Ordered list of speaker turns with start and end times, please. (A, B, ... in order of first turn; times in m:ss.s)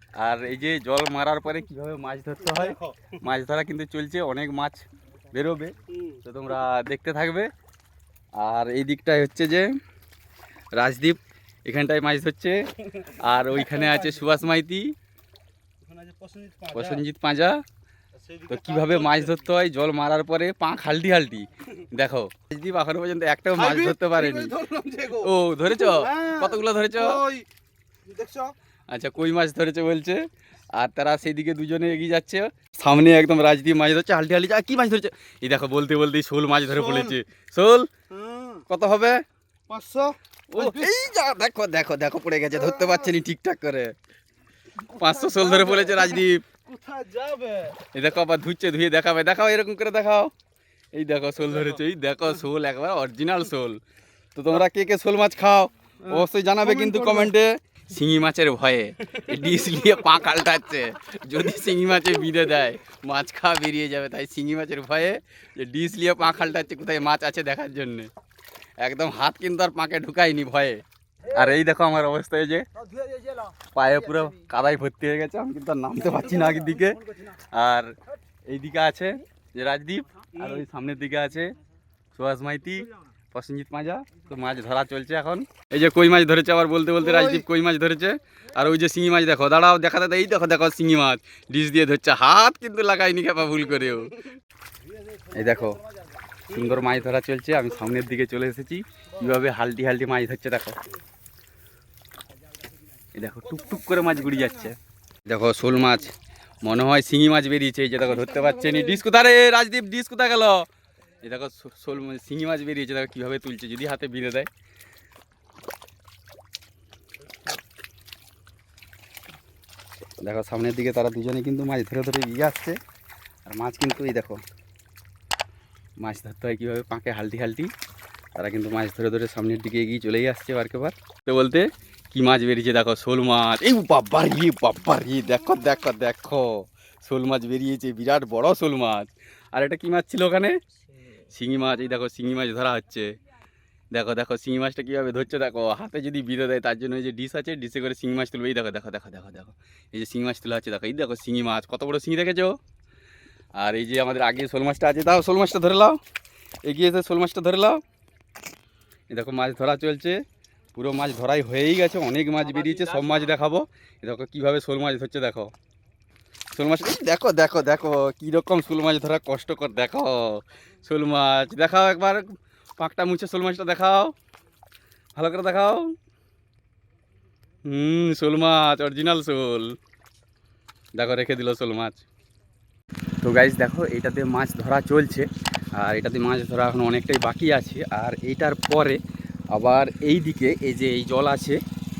0:00.2-0:07.5 A
0:02.4-0:03.2 B
0:08.4-0:09.7 A
0:10.8-0:14.9 A
0:13.0-0:14.3 B
0:15.8-0:17.0 B
0:16.7-0:17.6 A
0:18.2-0:19.4 B
0:18.5-0:24.6 A
0:23.6-0:27.5 B
0:25.1-0:27.2 A
0:28.0-0:28.5 B
0:28.9-0:37.9 A
0:36.7-0:37.2 B
0:38.1-0:38.6 B
0:38.7-0:39.2 A
0:39.7-0:40.9 B
0:40.5-0:44.0 A
0:42.6-0:43.1 B
0:44.8-0:46.4 A
0:44.9-0:47.8 B
0:47.9-0:50.3 A
0:50.9-0:53.8 A
0:54.3-1:08.1 A
0:56.0-0:57.3 B
1:08.8-1:12.7 A
1:13.0-1:13.5 B
1:13.7-1:17.9 A
1:16.0-1:17.3 B
1:18.5-1:21.5 A
1:22.1-1:34.2 A
1:27.0-1:27.4 B
1:35.3-1:35.8 A
1:36.5-1:40.8 A
1:36.5-1:36.9 B
1:43.1-1:44.8 A
1:43.6-1:44.5 B
1:45.3-1:50.6 A
1:51.2-1:54.5 A
2:00.2-2:02.8 A
2:03.4-2:04.4 A
2:06.0-2:07.7 A
2:08.4-2:20.6 A
2:21.3-2:23.2 A
2:23.9-2:32.6 A
2:33.6-2:36.0 A
2:36.6-2:37.8 A
2:39.1-2:40.2 A
2:40.7-2:45.5 A
2:46.5-2:54.1 A
2:55.1-2:55.9 A
2:57.6-2:59.8 A
3:01.0-3:02.0 A
3:03.2-3:09.0 A
3:09.5-3:11.6 A